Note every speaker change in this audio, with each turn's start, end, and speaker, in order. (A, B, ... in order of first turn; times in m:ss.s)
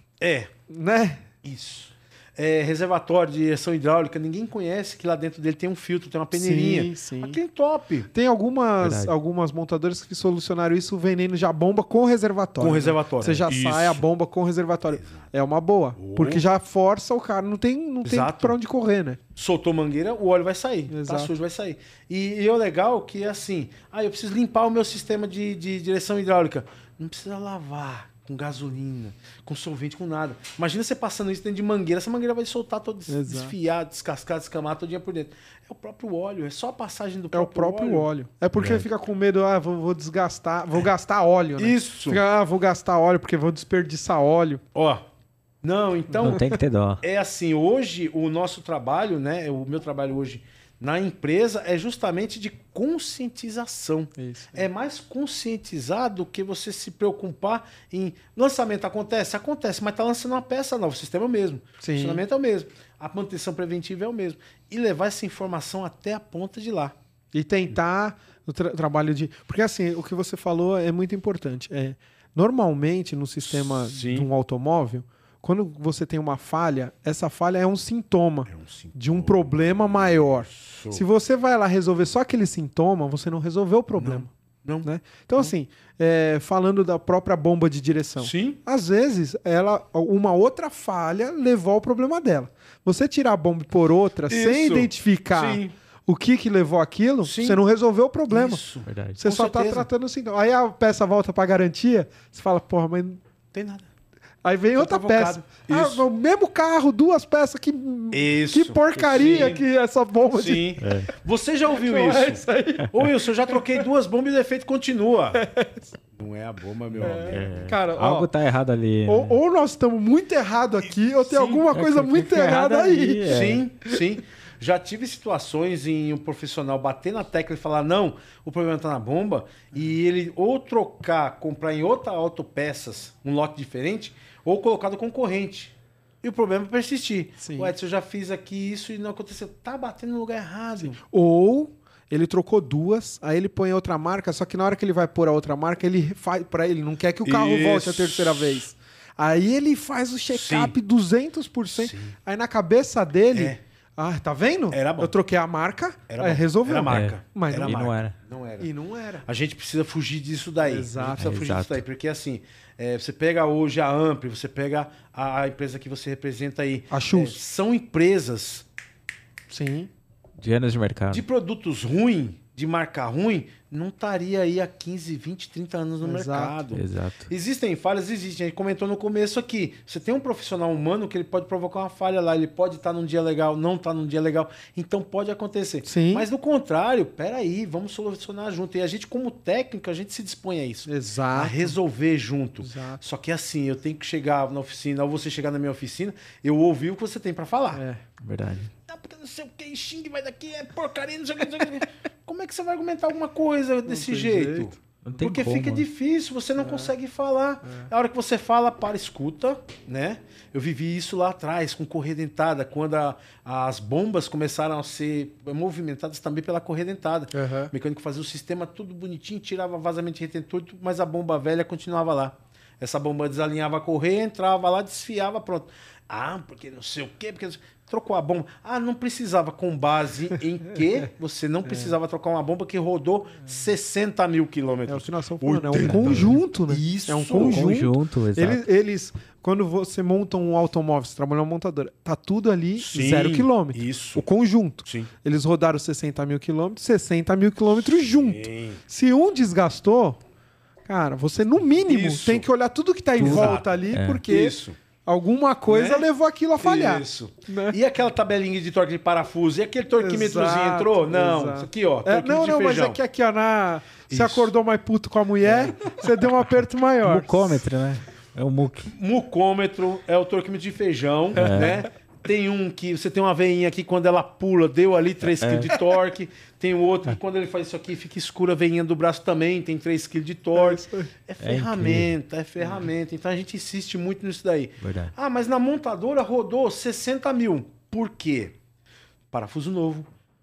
0:00.2-0:00.5 A
0:00.7-0:01.3 B
0:01.4-0:08.1 A
0:06.3-0:07.4 B
0:08.1-0:19.2 B
0:08.8-0:09.1 C
0:12.6-0:14.0 A
0:15.0-0:15.3 A
0:16.0-0:16.4 A
0:18.0-0:18.5 A
0:19.4-0:38.1 A
0:20.9-0:21.3 B
0:33.1-0:33.5 B
0:37.3-0:44.6 B
0:38.6-0:38.8 C
0:41.6-0:42.2 A
0:44.7-0:45.0 A
0:45.6-0:46.4 A
0:46.2-0:47.0 C
0:47.0-1:07.0 A
0:54.2-0:54.7 B
1:01.8-1:02.2 B
1:07.3-1:24.3 B
1:13.4-1:14.3 A
1:18.5-1:21.0 A
1:24.0-1:25.5 A
1:24.8-1:38.6 B
1:28.2-1:28.6 A
1:34.3-1:35.7 A
1:37.2-1:37.6 A
1:38.3-1:39.9 A
1:38.8-1:39.2 C
1:39.2-1:43.2 B
1:43.5-1:43.9 A
1:44.4-1:50.8 B
1:44.8-1:46.0 A
1:48.1-1:49.6 A
1:49.0-1:49.5 C
1:50.3-1:55.4 A
1:50.8-1:51.1 C
1:51.7-1:53.8 B
1:55.3-1:55.9 B
1:56.1-1:57.5 A
1:57.0-1:59.4 C
1:57.0-1:58.3 B
1:59.0-2:04.0 B
2:01.2-2:01.7 A
2:01.7-2:03.6 C
2:03.2-2:21.0 A
2:17.4-2:17.7 B
2:20.9-2:37.8 B
2:27.2-2:28.6 A
2:30.3-2:30.7 A
2:31.7-2:32.2 A
2:33.3-2:33.6 A
2:34.7-2:35.1 A
2:36.1-2:38.7 A
2:36.8-2:38.2 C
2:38.6-2:39.2 B
2:39.2-2:48.6 A
2:40.6-2:41.4 B
2:41.2-2:41.8 C
2:46.9-2:47.4 B
2:49.5-2:49.9 B
2:50.4-2:51.2 C
2:51.1-3:17.8 A
2:56.0-2:56.6 B
2:56.7-2:57.3 C
3:05.8-3:06.3 B
3:10.9-3:11.8 B
3:12.6-3:13.0 B
3:17.7-3:18.0 B
3:18.2-3:18.7 C
3:18.9-3:57.7 A
3:23.8-3:25.0 B
3:25.0-3:25.8 C
3:26.6-3:26.9 B
3:27.6-3:27.9 B
3:37.3-3:37.7 B
3:51.6-3:51.9 B
3:54.9-4:10.2 B
3:55.8-3:56.3 C
3:57.3-3:58.6 C
4:02.8-4:04.2 A
4:04.8-4:05.1 A
4:08.1-4:08.8 A
4:10.8-4:17.8 B
4:11.8-4:12.4 A
4:13.2-4:14.2 C
4:13.2-4:13.7 A
4:14.3-4:14.8 A
4:15.7-4:16.0 A
4:16.6-4:23.0 A
4:20.0-4:27.6 B
4:24.1-4:24.5 A
4:25.4-4:26.0 A
4:27.0-4:28.9 C
4:28.9-4:48.6 A
4:31.3-4:31.8 C
4:35.4-4:35.7 C
4:40.5-4:41.1 B
4:41.4-4:42.1 C
4:44.8-4:45.1 C
4:49.3-4:50.1 A